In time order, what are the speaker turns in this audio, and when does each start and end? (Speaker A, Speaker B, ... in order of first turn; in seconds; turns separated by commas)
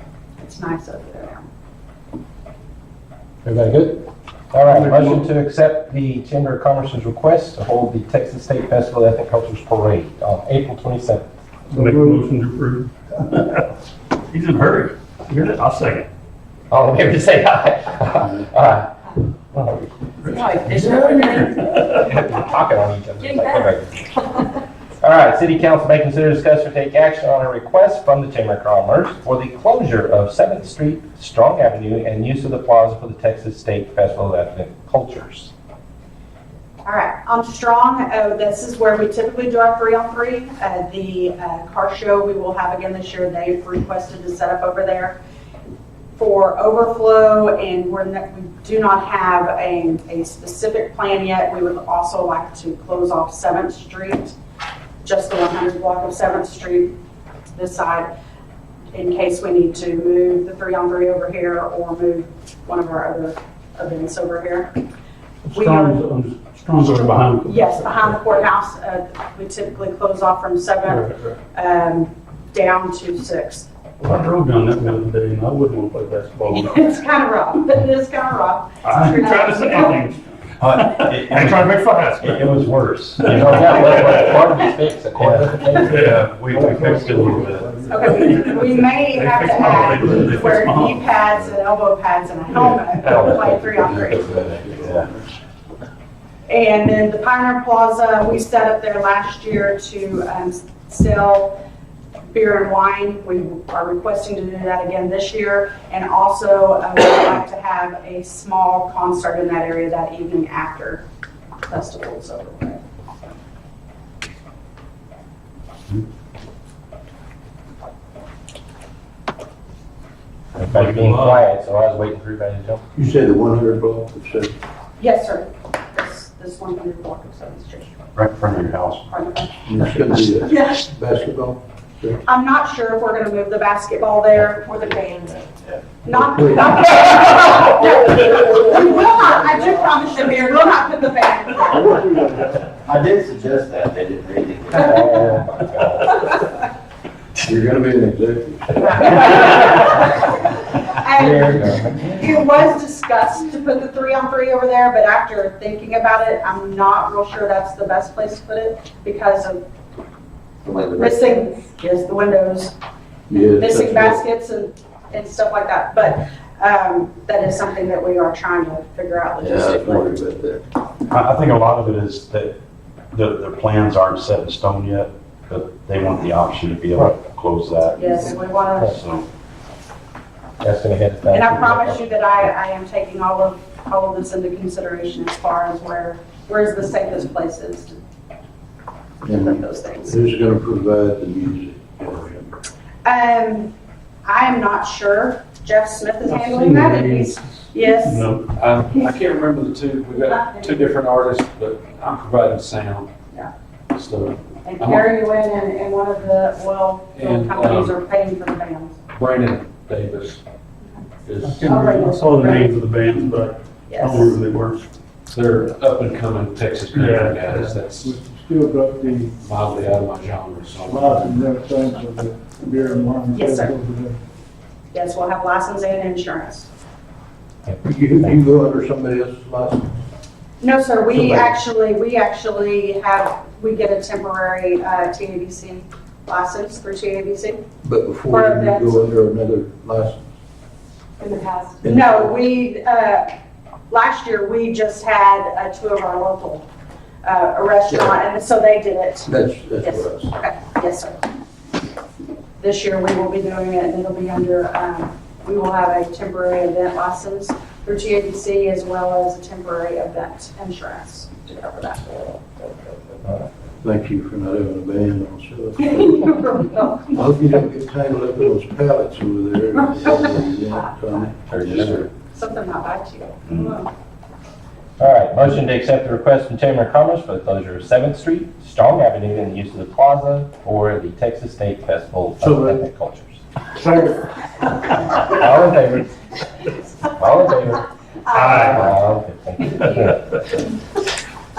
Speaker A: 0.4-1.5, Speaker B: 3.4-11.2, Speaker C: 4.7-5.2, Speaker C: 11.7-13.7, Speaker D: 11.8-12.1, Speaker C: 14.3-16.1, Speaker B: 16.7-18.9, Speaker B: 19.5-19.9, Speaker E: 20.3-21.5, Speaker A: 20.4-21.3, Speaker F: 20.8-21.4, Speaker B: 21.7-24.1, Speaker B: 25.0-35.5, Speaker A: 36.9-45.2, Speaker A: 46.2-54.3, Speaker A: 55.0-57.0, Speaker A: 57.5-58.1, Speaker A: 58.9-64.7, Speaker C: 65.5-68.4, Speaker A: 65.5-66.0, Speaker A: 66.8-73.7, Speaker C: 70.9-71.4, Speaker C: 74.0-76.9, Speaker A: 76.5-80.0, Speaker C: 78.8-82.5, Speaker G: 80.6-84.4, Speaker B: 83.2-86.1, Speaker C: 83.3-84.2, Speaker G: 85.1-88.3, Speaker C: 85.9-86.2, Speaker D: 86.5-87.8, Speaker A: 87.9-94.3, Speaker C: 88.1-91.0, Speaker G: 93.1-94.1, Speaker F: 93.7-95.3, Speaker G: 94.7-95.1, Speaker A: 96.5-101.6, Speaker A: 102.3-111.0, Speaker A: 111.7-112.8, Speaker B: 120.5-122.8, Speaker G: 120.7-121.4, Speaker F: 123.0-124.5, Speaker A: 125.0-128.0, Speaker G: 128.1-129.0, Speaker A: 129.1-129.5, Speaker F: 129.7-132.2, Speaker A: 130.4-130.9, Speaker A: 132.2-135.4, Speaker A: 136.0-142.1, Speaker F: 136.1-136.8, Speaker E: 142.6-145.1, Speaker B: 144.7-146.1, Speaker A: 144.7-145.2, Speaker F: 147.4-149.3, Speaker A: 148.8-150.2, Speaker B: 149.5-149.9, Speaker A: 150.9-159.6, Speaker B: 151.1-152.1, Speaker E: 160.7-161.1, Speaker A: 160.8-162.7, Speaker F: 163.3-164.2, Speaker A: 163.6-170.1, Speaker F: 169.4-170.6, Speaker G: 171.1-172.6, Speaker G: 173.1-179.2, Speaker A: 177.9-179.0, Speaker B: 180.6-182.1, Speaker A: 181.3-188.0, Speaker F: 189.2-192.5, Speaker A: 189.2-190.2, Speaker A: 193.0-193.7, Speaker A: 194.2-198.3, Speaker C: 196.3-198.4, Speaker H: 198.5-203.1, Speaker A: 200.2-200.9, Speaker H: 203.9-205.1, Speaker A: 204.6-209.0, Speaker H: 207.1-207.9, Speaker H: 209.1-210.4, Speaker H: 211.2-211.6, Speaker C: 211.4-214.9, Speaker A: 211.6-212.7, Speaker A: 213.9-214.4, Speaker H: 215.3-218.1, Speaker C: 216.9-217.5, Speaker D: 218.0-219.2, Speaker H: 219.4-221.7, Speaker D: 220.9-224.2, Speaker A: 223.3-223.7, Speaker A: 224.9-226.7, Speaker F: 227.8-229.9, Speaker A: 230.6-237.6, Speaker F: 231.1-231.5, Speaker F: 237.8-240.2, Speaker A: 238.3-239.0, Speaker A: 241.2-243.3, Speaker F: 241.8-242.3, Speaker A: 243.9-246.7, Speaker A: 247.2-251.2, Speaker F: 247.9-248.2, Speaker F: 249.2-250.3, Speaker A: 252.6-263.2, Speaker F: 263.8-266.3, Speaker A: 265.8-267.2, Speaker F: 267.1-272.0, Speaker A: 269.7-271.2, Speaker B: 271.5-272.1, Speaker A: 272.3-273.9, Speaker B: 275.0-283.4, Speaker F: 282.4-282.7, Speaker F: 283.8-284.2, Speaker B: 285.2-286.1, Speaker B: 287.1-290.5, Speaker C: 288.3-288.8